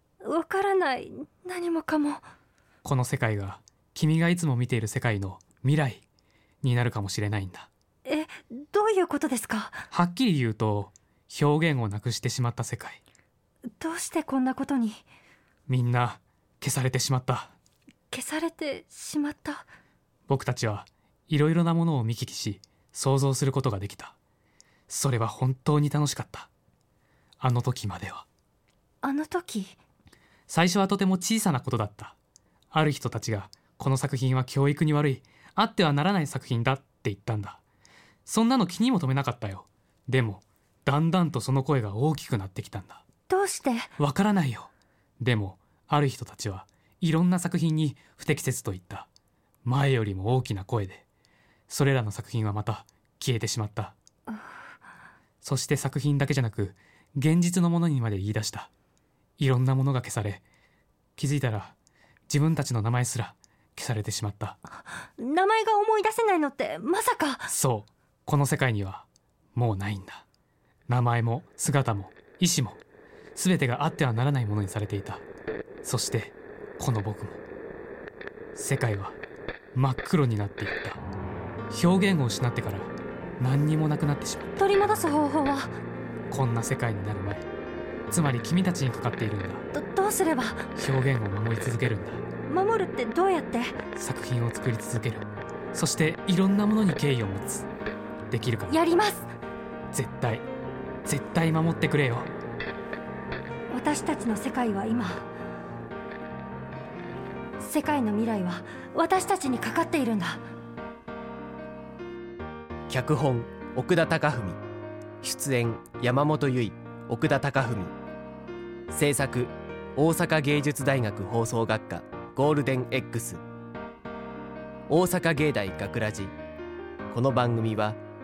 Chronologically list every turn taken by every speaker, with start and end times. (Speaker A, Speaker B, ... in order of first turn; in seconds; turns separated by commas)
Speaker A: 0.2-2.2, Speaker B: 2.8-6.0, Speaker B: 6.6-7.7, Speaker A: 8.1-9.8, Speaker B: 9.9-13.0, Speaker A: 13.7-15.0, Speaker B: 15.7-17.6, Speaker A: 18.1-19.6, Speaker B: 20.3-24.2, Speaker B: 24.9-26.5, Speaker B: 27.4-28.2, Speaker A: 29.0-29.8, Speaker B: 30.5-32.1, Speaker B: 32.7-37.6, Speaker B: 38.3-43.0, Speaker A: 43.3-43.9, Speaker B: 44.0-49.1, Speaker B: 49.6-51.0, Speaker B: 51.7-54.0, Speaker B: 55.4-58.7, Speaker B: 59.4-60.4, Speaker B: 61.2-61.8, Speaker B: 62.3-64.6, Speaker A: 65.2-67.5, Speaker B: 67.5-70.2, Speaker B: 70.9-72.8, Speaker B: 73.3-75.2, Speaker B: 75.8-77.4, Speaker B: 78.5-79.2, Speaker B: 79.7-81.0, Speaker B: 81.7-84.6, Speaker A: 84.6-85.7, Speaker B: 86.3-87.4, Speaker B: 88.1-89.7, Speaker A: 89.7-90.7, Speaker B: 90.8-92.2, Speaker A: 92.5-93.7, Speaker B: 94.0-97.7, Speaker B: 98.3-98.8, Speaker A: 98.7-99.3, Speaker B: 99.9-100.5, Speaker B: 101.0-102.3, Speaker A: 103.7-105.2, Speaker A: 107.6-110.4, Speaker C: 112.9-114.6, Speaker C: 115.2-117.9, Speaker C: 118.9-123.4, Speaker C: 124.9-126.3, Speaker C: 127.1-128.0